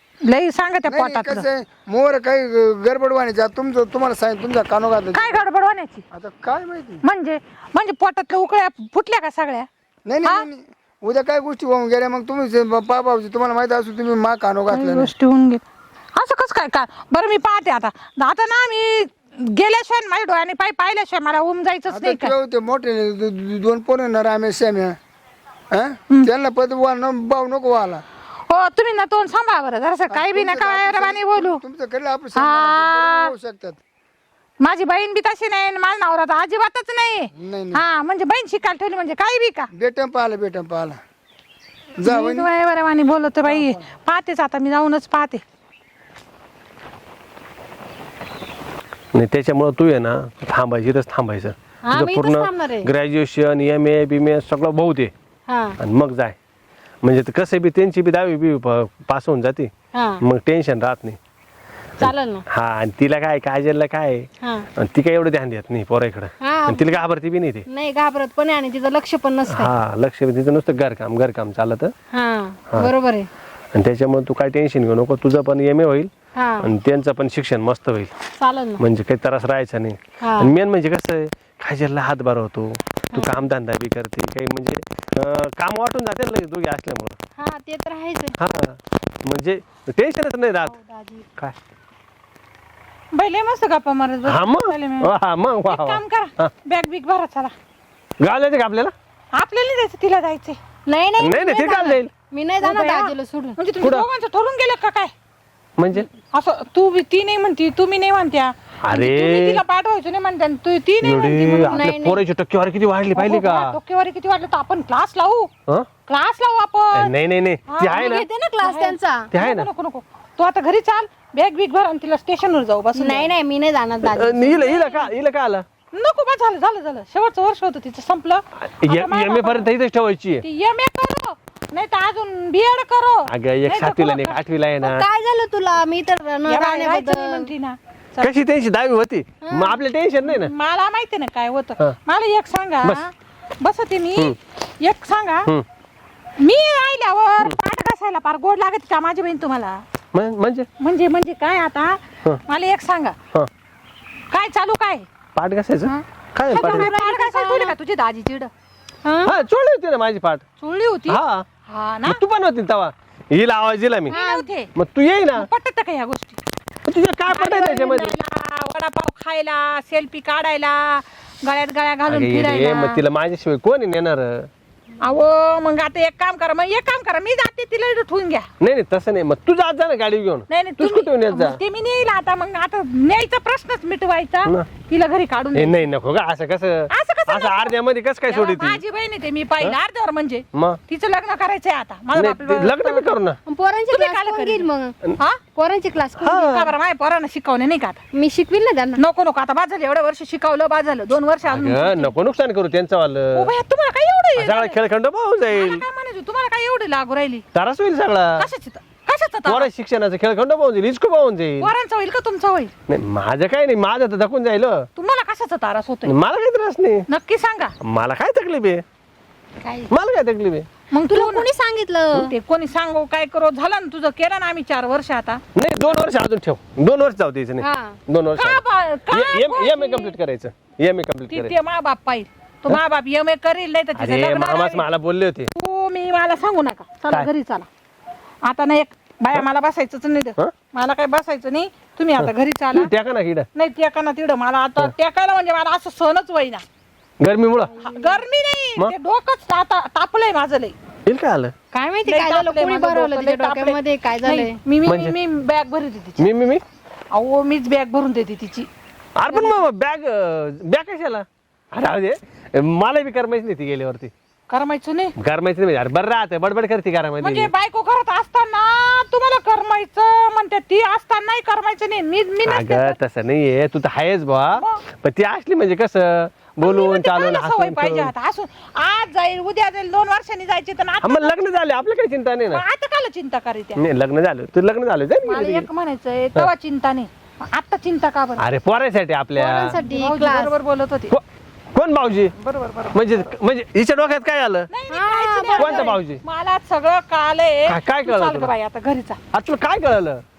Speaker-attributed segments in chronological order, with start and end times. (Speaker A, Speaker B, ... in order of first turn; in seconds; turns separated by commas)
Speaker A: 0.2-1.5, Speaker B: 0.9-5.4, Speaker A: 5.1-6.0, Speaker B: 6.1-7.0, Speaker A: 7.0-9.7, Speaker B: 10.1-15.1, Speaker A: 14.7-15.6, Speaker A: 16.2-22.3, Speaker B: 21.9-24.9, Speaker B: 25.7-28.0, Speaker A: 28.5-31.6, Speaker B: 30.1-33.8, Speaker A: 32.4-33.3, Speaker A: 34.6-39.7, Speaker B: 37.4-37.8, Speaker B: 39.7-41.0, Speaker B: 42.0-42.5, Speaker A: 42.0-45.4, Speaker B: 43.5-43.8, Speaker C: 49.1-55.1, Speaker D: 51.8-52.9, Speaker D: 55.5-55.8, Speaker C: 55.8-56.4, Speaker C: 57.0-61.2, Speaker D: 59.9-60.2, Speaker D: 62.0-62.4, Speaker C: 62.0-64.3, Speaker D: 64.4-64.7, Speaker C: 64.8-67.6, Speaker D: 66.4-67.0, Speaker D: 67.7-69.7, Speaker C: 69.5-71.9, Speaker D: 72.1-73.3, Speaker C: 73.7-78.1, Speaker D: 76.3-76.7, Speaker D: 78.4-78.8, Speaker C: 78.8-87.2, Speaker D: 80.2-80.5, Speaker D: 87.4-88.3, Speaker C: 88.4-90.7, Speaker D: 90.7-91.3, Speaker A: 93.1-95.1, Speaker C: 94.3-96.5, Speaker A: 95.7-97.5, Speaker C: 98.2-98.9, Speaker A: 99.4-100.6, Speaker D: 100.9-103.6, Speaker C: 101.2-102.1, Speaker A: 102.6-105.1, Speaker C: 105.8-106.1, Speaker A: 106.0-112.1, Speaker C: 108.8-109.6, Speaker C: 111.0-113.7, Speaker D: 111.7-112.2, Speaker A: 113.1-115.5, Speaker A: 116.1-117.1, Speaker C: 116.9-118.3, Speaker A: 117.7-123.3, Speaker D: 117.9-119.3, Speaker C: 119.3-119.7, Speaker D: 123.0-124.7, Speaker C: 124.0-125.6, Speaker A: 124.5-125.1, Speaker A: 125.9-129.7, Speaker C: 128.7-130.4, Speaker A: 130.4-134.4, Speaker C: 133.3-135.1, Speaker D: 134.8-137.5, Speaker A: 136.5-138.3, Speaker C: 138.2-140.5, Speaker D: 139.4-139.8, Speaker A: 140.3-145.5, Speaker A: 146.4-149.8, Speaker C: 150.1-150.7, Speaker A: 150.8-153.2, Speaker A: 154.3-155.1, Speaker C: 155.4-156.9, Speaker A: 155.9-158.5, Speaker D: 156.5-157.8, Speaker D: 159.0-159.4, Speaker C: 159.2-160.4, Speaker A: 160.6-162.2, Speaker C: 161.1-161.4, Speaker C: 162.1-164.2, Speaker D: 164.1-164.5, Speaker A: 164.1-164.7, Speaker C: 164.7-165.5, Speaker A: 165.3-166.4, Speaker C: 166.9-168.2, Speaker A: 167.3-173.0, Speaker C: 172.1-174.5, Speaker A: 175.0-178.5, Speaker C: 178.6-181.6, Speaker A: 180.5-185.8, Speaker C: 185.6-188.8, Speaker A: 186.9-187.8, Speaker A: 188.3-193.1, Speaker C: 190.5-190.8, Speaker C: 192.1-193.4, Speaker D: 193.5-195.0, Speaker A: 193.9-194.7, Speaker D: 195.6-196.6, Speaker C: 196.2-196.7, Speaker A: 196.3-198.0, Speaker D: 198.1-199.0, Speaker A: 199.0-202.1, Speaker C: 201.5-203.5, Speaker A: 203.3-204.8, Speaker C: 204.4-205.8, Speaker A: 205.5-207.4, Speaker C: 207.6-208.4, Speaker A: 208.4-209.7, Speaker C: 209.5-211.7, Speaker A: 211.6-212.7, Speaker C: 212.9-214.9, Speaker A: 215.0-216.2, Speaker C: 216.1-217.1, Speaker A: 217.1-217.7, Speaker C: 217.8-218.8, Speaker D: 219.6-219.9, Speaker C: 219.9-220.7, Speaker A: 220.9-221.5, Speaker D: 221.1-222.3, Speaker A: 222.2-225.4, Speaker C: 225.6-231.6, Speaker D: 227.6-228.0, Speaker A: 228.4-230.2, Speaker A: 231.3-234.9, Speaker C: 234.0-235.5, Speaker A: 235.6-237.7, Speaker A: 238.4-242.9, Speaker C: 242.2-243.5, Speaker A: 243.6-246.6, Speaker C: 247.2-247.8, Speaker A: 247.8-250.8, Speaker D: 247.8-248.2, Speaker C: 251.1-251.5, Speaker D: 251.7-254.6, Speaker A: 252.1-256.3, Speaker C: 254.8-255.2, Speaker C: 256.2-256.6, Speaker A: 257.1-258.7, Speaker C: 259.2-264.1, Speaker A: 264.5-265.1, Speaker C: 265.2-267.5, Speaker A: 267.2-273.0, Speaker C: 272.5-278.1, Speaker A: 274.5-274.8, Speaker A: 276.6-281.5, Speaker C: 281.0-282.6, Speaker A: 282.5-283.8, Speaker C: 283.8-285.7, Speaker A: 285.2-288.4, Speaker C: 288.4-289.8, Speaker D: 289.4-290.5, Speaker A: 289.8-291.1, Speaker C: 291.7-292.3, Speaker A: 292.4-293.3, Speaker C: 292.9-294.7, Speaker A: 294.7-299.2, Speaker D: 294.9-295.9, Speaker C: 295.6-296.2, Speaker C: 297.7-298.5, Speaker C: 299.3-300.2